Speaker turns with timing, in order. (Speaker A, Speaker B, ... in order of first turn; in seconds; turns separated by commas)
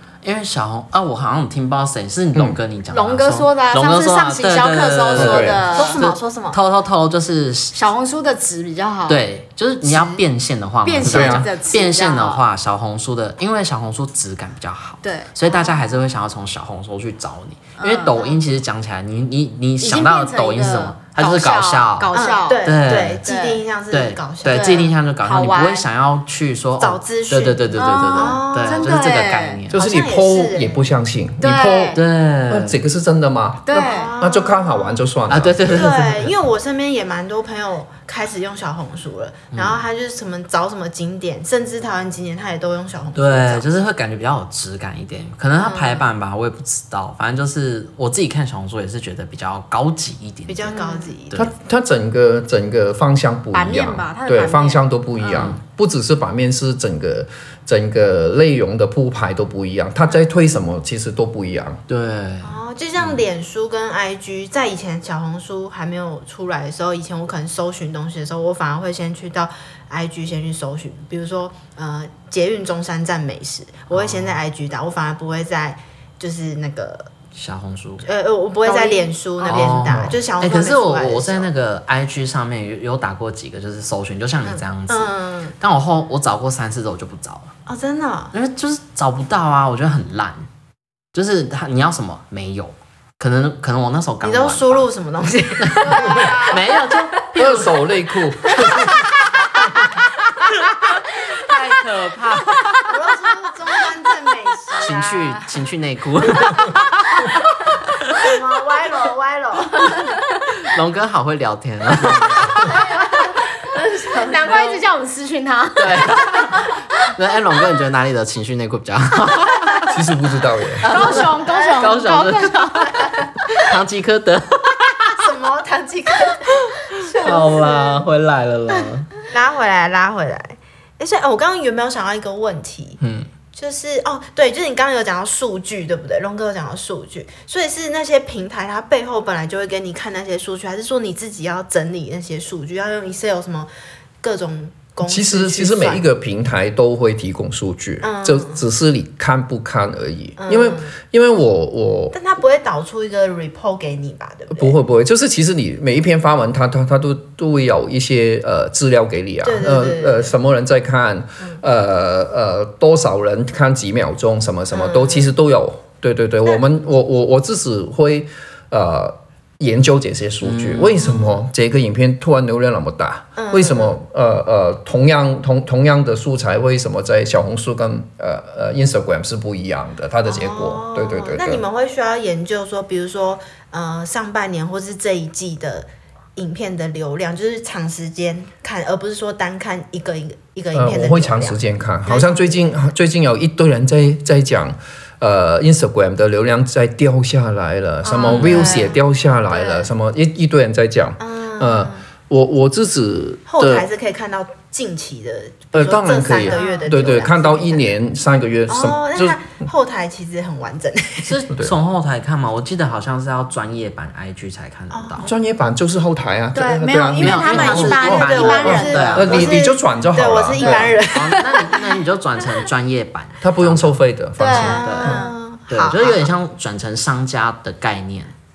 Speaker A: 0.2-7.8, Speaker B: 2.9-6.0, Speaker C: 5.2-5.6, Speaker D: 5.7-6.6, Speaker B: 7.7-9.2, Speaker A: 9.1-23.2, Speaker B: 9.8-10.2, Speaker B: 10.8-12.4, Speaker C: 11.1-11.5, Speaker B: 15.0-15.3, Speaker D: 15.5-15.8, Speaker B: 17.8-18.4, Speaker B: 19.8-23.6, Speaker D: 22.1-24.9, Speaker A: 23.9-29.8, Speaker B: 24.5-25.8, Speaker D: 26.8-28.9, Speaker B: 27.8-29.6, Speaker C: 29.7-36.2, Speaker D: 29.7-31.0, Speaker B: 31.4-32.0, Speaker A: 32.0-32.8, Speaker B: 33.7-34.1, Speaker D: 33.7-35.0, Speaker A: 35.3-36.2, Speaker D: 35.7-43.6, Speaker A: 39.5-39.8, Speaker A: 43.1-50.8, Speaker D: 45.6-46.1, Speaker D: 50.5-51.5, Speaker B: 50.7-51.1, Speaker C: 51.4-61.8, Speaker B: 53.5-54.8, Speaker D: 55.2-55.5, Speaker A: 55.3-55.6, Speaker A: 61.9-63.2, Speaker D: 62.4-77.1, Speaker A: 73.9-74.4, Speaker A: 77.3-78.1, Speaker D: 78.0-81.5, Speaker B: 78.6-79.8, Speaker A: 79.5-87.5, Speaker D: 84.5-85.5, Speaker D: 87.7-88.3, Speaker A: 88.3-90.5, Speaker A: 91.1-94.9, Speaker D: 94.2-96.9, Speaker A: 95.6-97.9, Speaker B: 95.8-96.6, Speaker C: 97.4-99.0, Speaker D: 98.5-99.2, Speaker A: 101.0-102.8, Speaker D: 102.9-105.4, Speaker A: 104.7-107.2, Speaker D: 108.1-110.2, Speaker A: 110.6-112.8, Speaker B: 112.6-112.8, Speaker D: 113.7-114.4, Speaker B: 113.7-116.7, Speaker A: 114.5-114.8, Speaker A: 115.8-119.9, Speaker C: 119.9-120.8, Speaker A: 120.8-125.2, Speaker B: 120.8-123.0, Speaker D: 121.2-123.1, Speaker D: 125.1-128.1, Speaker B: 127.1-127.8, Speaker A: 127.1-129.1, Speaker D: 129.3-133.0, Speaker A: 133.0-133.3, Speaker D: 133.5-143.7, Speaker D: 144.2-146.0, Speaker C: 145.0-152.2, Speaker D: 148.0-148.6, Speaker D: 150.4-150.9, Speaker D: 152.1-154.8, Speaker C: 154.5-181.7, Speaker D: 159.4-160.3, Speaker D: 164.7-165.3, Speaker A: 170.4-171.0, Speaker D: 171.0-171.4, Speaker D: 173.4-173.9, Speaker D: 180.2-192.8, Speaker C: 190.7-203.9, Speaker D: 198.0-199.9, Speaker A: 198.3-198.7, Speaker B: 198.5-199.0, Speaker D: 201.2-202.0, Speaker D: 203.5-207.9, Speaker C: 205.7-209.4, Speaker B: 206.5-207.0, Speaker D: 208.7-211.3, Speaker A: 211.2-215.3, Speaker D: 214.9-215.3, Speaker C: 215.2-221.0, Speaker B: 216.5-219.4, Speaker A: 217.2-219.6, Speaker D: 217.6-222.0, Speaker A: 220.6-224.0, Speaker C: 223.4-225.1, Speaker B: 224.4-225.3, Speaker D: 224.5-226.3, Speaker A: 224.5-228.3